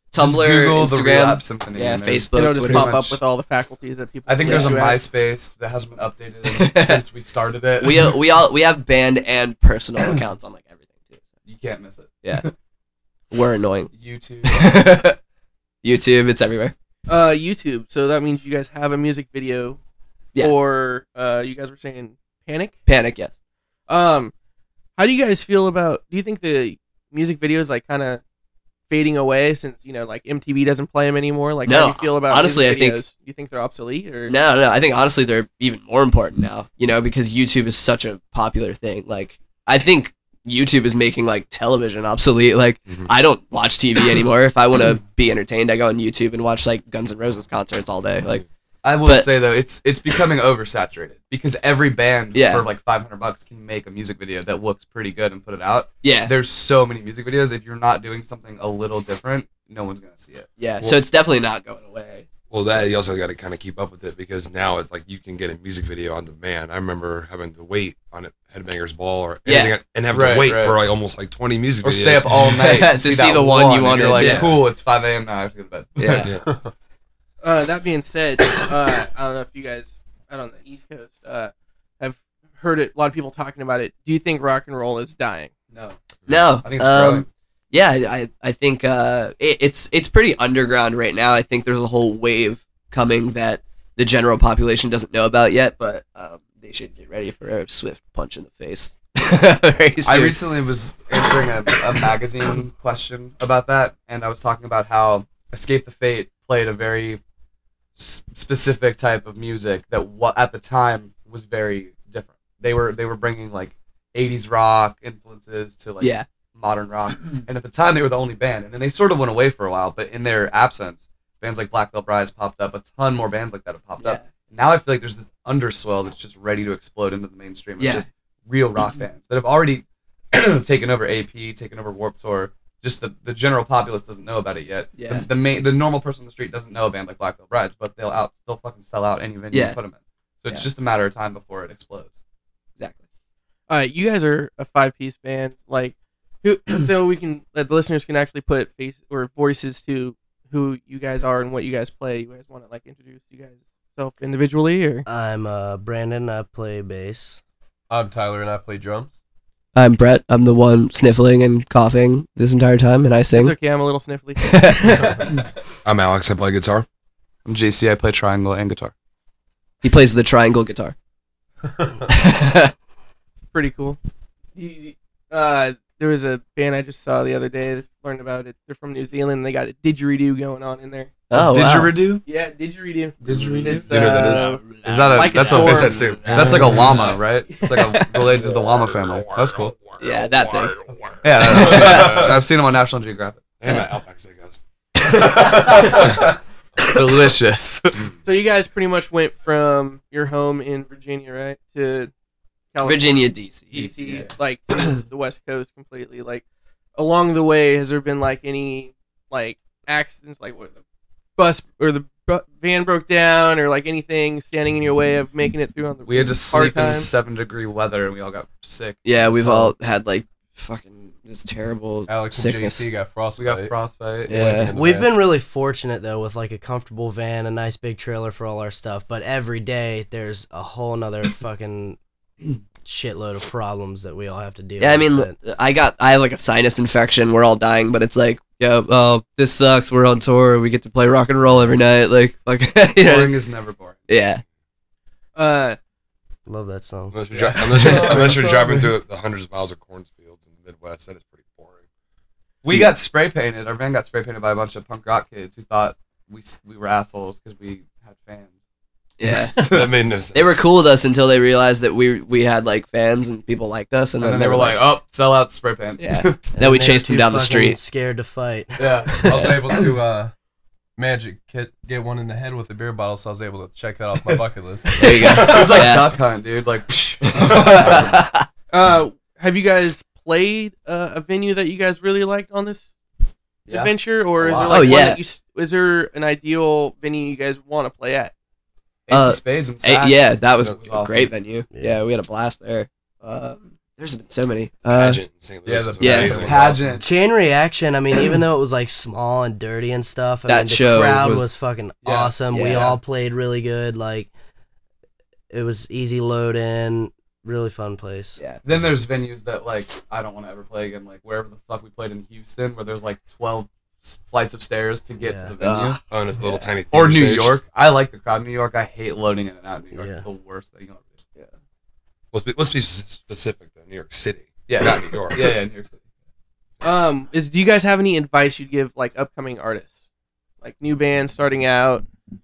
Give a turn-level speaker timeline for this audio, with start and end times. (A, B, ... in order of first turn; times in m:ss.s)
0:00.1-0:03.1 A
0:00.2-0:03.2 B
0:02.3-0:05.0 C
0:04.3-0:08.1 B
0:04.4-0:04.8 A
0:06.4-0:07.0 A
0:07.8-0:11.2 A
0:11.5-0:12.5 B
0:13.3-0:13.9 A
0:13.9-0:14.8 B
0:14.4-0:15.2 A
0:15.8-0:16.7 A
0:17.1-0:19.8 C
0:20.4-0:22.7 C
0:22.9-0:23.3 A
0:23.9-0:24.3 C
0:25.0-0:28.2 C
0:28.9-0:34.3 C
0:31.6-0:33.0 A
0:34.3-0:48.4 A
0:48.8-1:00.5 B
0:49.0-0:49.3 A
0:52.3-0:52.6 A
0:56.0-0:56.3 A
1:00.6-1:02.3 A
1:02.5-1:12.4 D
1:09.4-1:09.8 A
1:10.1-1:10.8 B
1:11.8-1:16.3 B
1:12.4-1:14.6 A
1:14.1-1:14.6 D
1:16.0-1:16.3 A
1:16.1-1:16.4 D
1:17.4-1:25.5 C
1:25.7-1:26.0 B
1:26.3-1:40.4 A
1:26.5-1:27.3 B
1:40.0-1:47.2 B
1:41.1-1:42.0 A
1:48.0-2:22.1 B
1:56.0-1:56.2 A
2:07.8-2:08.0 A
2:15.0-2:15.2 A
2:19.5-2:19.8 A
2:23.7-2:35.0 C
2:35.0-2:37.4 E
2:37.9-2:39.1 F
2:39.7-2:43.5 A
2:43.3-2:45.2 C
2:44.5-2:45.2 A
2:45.8-2:46.8 D
2:47.4-2:48.9 B
2:49.8-2:50.9 A
2:52.1-2:52.7 A
2:53.5-2:54.0 C
2:54.6-3:01.1 C
3:01.3-3:02.0 A
3:01.3-3:02.2 B
3:02.2-3:08.3 C
3:03.2-3:04.1 B
3:03.6-3:04.7 D
3:04.8-3:09.7 B
3:05.3-3:07.2 D
3:08.5-3:12.2 D
3:10.0-3:10.8 A
3:11.2-3:13.5 B
3:11.4-3:12.4 A
3:13.6-3:14.6 D
3:15.0-3:16.1 A
3:16.8-3:18.0 B
3:18.2-3:22.1 C
3:22.7-3:26.4 C
3:22.8-3:24.3 A
3:27.0-3:30.8 C
3:31.4-3:37.1 C
3:36.0-3:39.7 B
3:39.0-3:42.8 A
3:42.1-3:43.8 F
3:43.4-3:44.6 B
3:44.3-3:44.7 A
3:44.3-3:45.1 F
3:44.7-3:52.0 E
3:52.8-3:55.3 E
3:54.8-4:03.4 A
4:03.0-4:04.1 B
4:04.1-4:04.4 A
4:05.4-4:05.8 C
4:06.5-4:07.2 E
4:07.1-4:11.8 D
4:07.3-4:08.9 F
4:07.8-4:08.3 B
4:12.6-4:18.5 B
4:12.7-4:12.9 A
4:19.2-4:19.6 A
4:19.6-4:19.9 B
4:19.6-4:20.6 D
4:20.3-4:24.8 A
4:24.2-4:26.4 B
4:26.0-4:27.8 A
4:26.5-4:28.8 E
4:28.8-4:30.0 B
4:29.2-4:30.3 F
4:31.0-4:35.9 F
4:35.0-4:36.2 A
4:35.2-4:38.3 B
4:37.2-4:38.4 A
4:38.7-4:42.9 C
4:43.7-4:48.3 C
4:43.7-4:45.0 B
4:44.7-4:45.2 A
4:49.1-4:51.3 B
4:49.1-4:55.2 A
4:51.7-4:52.0 E
4:54.9-4:57.0 D
4:55.6-4:56.7 F
4:56.0-4:56.4 A
4:56.4-4:57.0 B
4:57.0-5:04.3 E
5:00.5-5:01.5 A
5:02.0-5:02.8 B
5:02.5-5:03.0 A
5:05.5-5:08.4 E
5:08.6-5:16.0 B
5:15.2-5:15.5 E
5:15.6-5:16.0 A
5:16.1-5:17.6 D
5:16.9-5:21.2 B
5:19.9-5:20.2 E
5:22.3-5:25.6 D
5:24.7-5:26.0 B
5:26.8-5:30.0 C
5:30.6-5:32.0 C